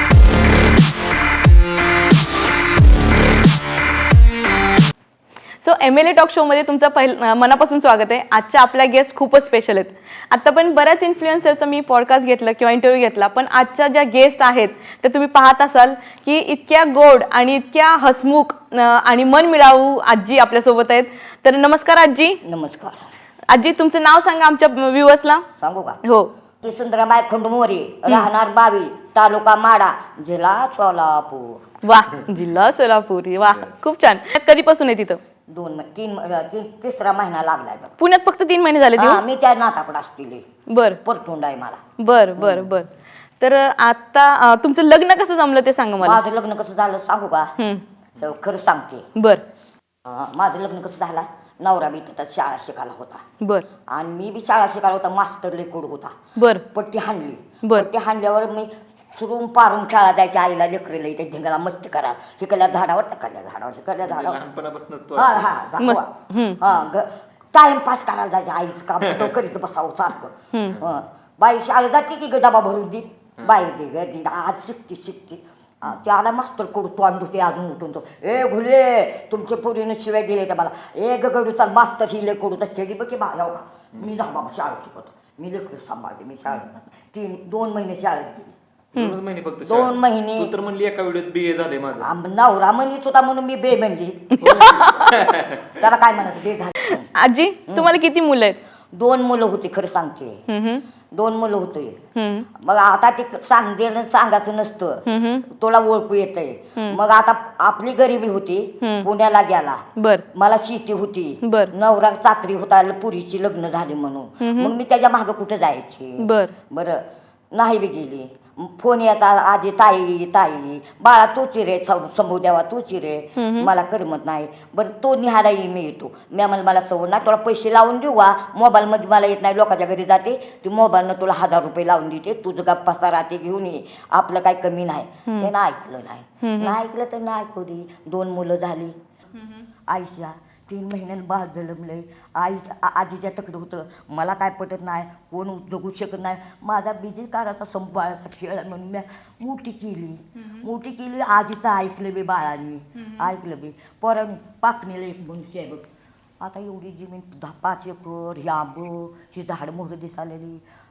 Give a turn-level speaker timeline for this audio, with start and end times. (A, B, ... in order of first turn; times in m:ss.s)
0:05.6-0:22.4 A
0:22.4-0:23.1 B
0:23.5-0:25.4 A
0:25.6-0:26.0 B
0:26.0-0:26.3 A
0:26.6-0:31.8 B
0:31.8-0:35.2 A
0:33.4-0:33.8 C
0:35.5-0:38.0 B
0:38.0-0:39.2 A
0:39.0-0:40.5 B
0:40.7-0:41.0 A
0:41.0-0:41.8 B
0:42.0-0:42.9 A
0:42.4-0:42.7 B
0:43.4-0:46.2 A
0:46.0-0:47.5 B
0:47.6-0:47.8 A
0:48.2-0:49.1 B
0:49.2-0:49.4 A
0:50.1-0:53.2 B
0:53.4-0:53.7 A
0:53.9-0:56.2 B
0:56.4-0:56.6 A
0:56.7-1:04.4 B
0:57.6-0:57.9 A
1:04.0-1:05.6 C
1:05.2-1:28.6 B
1:05.8-1:06.6 A
1:06.6-1:06.9 C
1:09.0-1:09.4 C
1:10.6-1:11.0 C
1:13.4-1:13.7 C
1:28.9-1:32.1 C
1:29.6-1:30.5 B
1:32.0-1:34.7 B
1:34.4-1:35.2 A
1:34.4-1:35.9 C
1:35.7-1:37.1 B
1:36.9-1:38.6 A
1:38.9-1:40.4 B
1:40.5-1:40.8 A
1:41.1-1:42.0 B
1:42.2-1:42.5 A
1:42.6-1:57.0 B
1:45.1-1:45.4 A
1:48.8-1:49.1 A
1:50.0-1:50.2 A
1:51.4-1:51.7 A
1:54.4-1:54.7 A
1:56.2-1:56.5 A
1:57.5-2:19.0 B
2:03.4-2:03.7 A
2:16.4-2:16.8 A
2:19.9-2:35.9 B
2:36.4-2:40.6 B